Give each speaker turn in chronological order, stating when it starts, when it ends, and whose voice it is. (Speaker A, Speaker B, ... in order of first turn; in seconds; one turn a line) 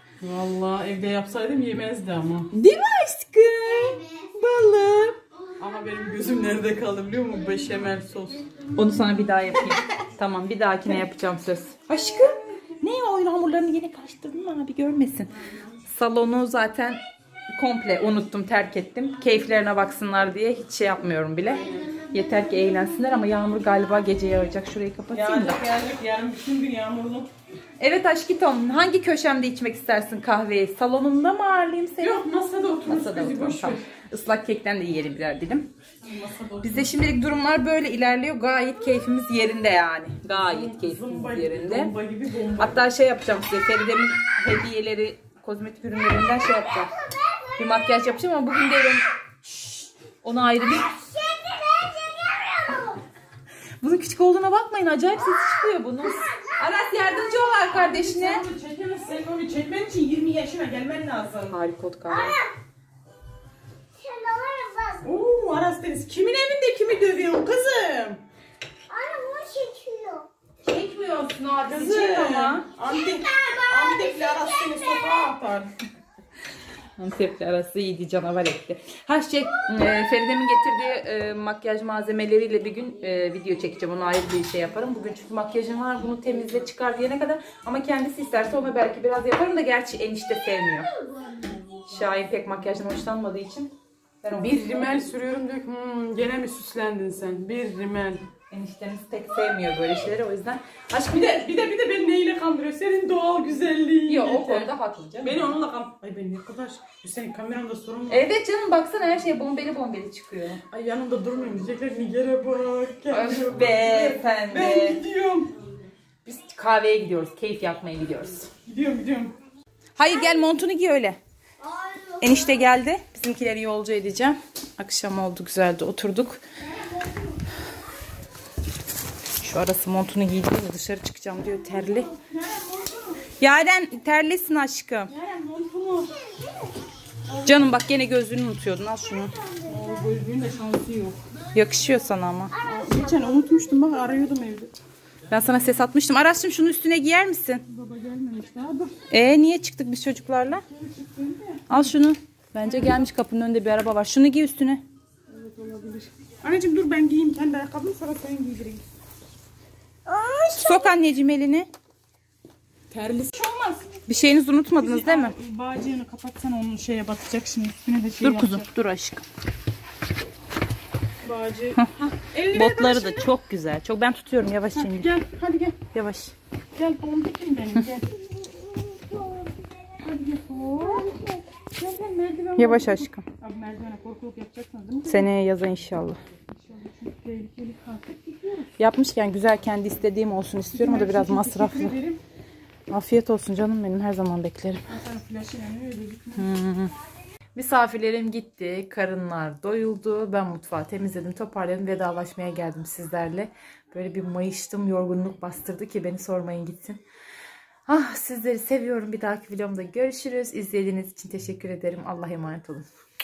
Speaker A: 0.2-2.5
Speaker B: 2.5-5.2
Speaker C: 3.6-4.3
Speaker A: 5.6-8.5
Speaker C: 5.8-6.2
Speaker B: 8.7-15.3
Speaker B: 15.8-17.0
Speaker B: 17.6-25.6
Speaker A: 21.5-22.0
Speaker C: 21.6-23.1
Speaker A: 25.1-27.3
Speaker B: 27.8-32.2
Speaker A: 32.0-33.9
Speaker B: 32.9-35.7
Speaker A: 36.0-36.9
Speaker B: 36.6-41.9
Speaker A: 40.3-42.9
Speaker B: 42.6-46.9
Speaker C: 47.0-47.8
Speaker B: 47.6-49.0
Speaker A: 49.4-49.9
Speaker B: 50.2-50.9
Speaker C: 50.7-53.0
Speaker B: 53.8-58.4
Speaker C: 56.0-57.5
Speaker A: 57.6-61.6
Speaker B: 61.5-62.4
Speaker C: 62.1-62.5
Speaker C: 64.0-65.1
Speaker A: 65.0-68.2
Speaker C: 68.9-70.3
Speaker B: 70.6-72.7
Speaker A: 71.6-75.7
Speaker C: 72.8-75.3
Speaker B: 77.0-90.9
Speaker B: 91.9-93.7
Speaker B: 94.2-95.0
Speaker A: 94.3-98.3
Speaker B: 98.5-101.5
Speaker A: 101.1-108.3
Speaker B: 104.1-105.6
Speaker B: 108.1-110.6
Speaker A: 110.7-115.5
Speaker B: 113.1-115.0
Speaker B: 116.2-118.5
Speaker A: 118.7-119.3
Speaker B: 120.0-121.2
Speaker C: 121.6-122.7
Speaker B: 122.2-126.4
Speaker B: 129.4-132.1
Speaker A: 132.1-133.2
Speaker B: 133.4-135.1
Speaker A: 135.1-136.2
Speaker A: 137.3-137.8
Speaker B: 137.4-139.3
Speaker A: 139.7-141.2
Speaker B: 141.5-142.5
Speaker A: 142.6-144.7
Speaker B: 145.3-147.6
Speaker A: 147.7-149.0
Speaker B: 149.1-150.7
Speaker A: 150.7-151.8
Speaker B: 151.7-154.8
Speaker A: 152.6-153.0
Speaker A: 155.3-158.8
Speaker A: 160.1-160.9
Speaker B: 160.5-161.7
Speaker A: 162.9-163.9
Speaker B: 164.1-165.3
Speaker A: 164.8-168.7
Speaker B: 168.2-169.2
Speaker A: 171.2-173.3
Speaker B: 172.4-175.1
Speaker A: 174.7-175.8
Speaker B: 175.9-176.3
Speaker A: 176.8-178.2
Speaker A: 178.8-185.3
Speaker B: 182.6-183.2
Speaker B: 185.1-186.2
Speaker A: 186.5-188.7
Speaker B: 188.8-192.0
Speaker A: 190.7-192.2
Speaker B: 192.9-194.8
Speaker A: 194.9-196.5
Speaker B: 196.3-196.9
Speaker B: 197.6-207.0
Speaker B: 207.9-212.8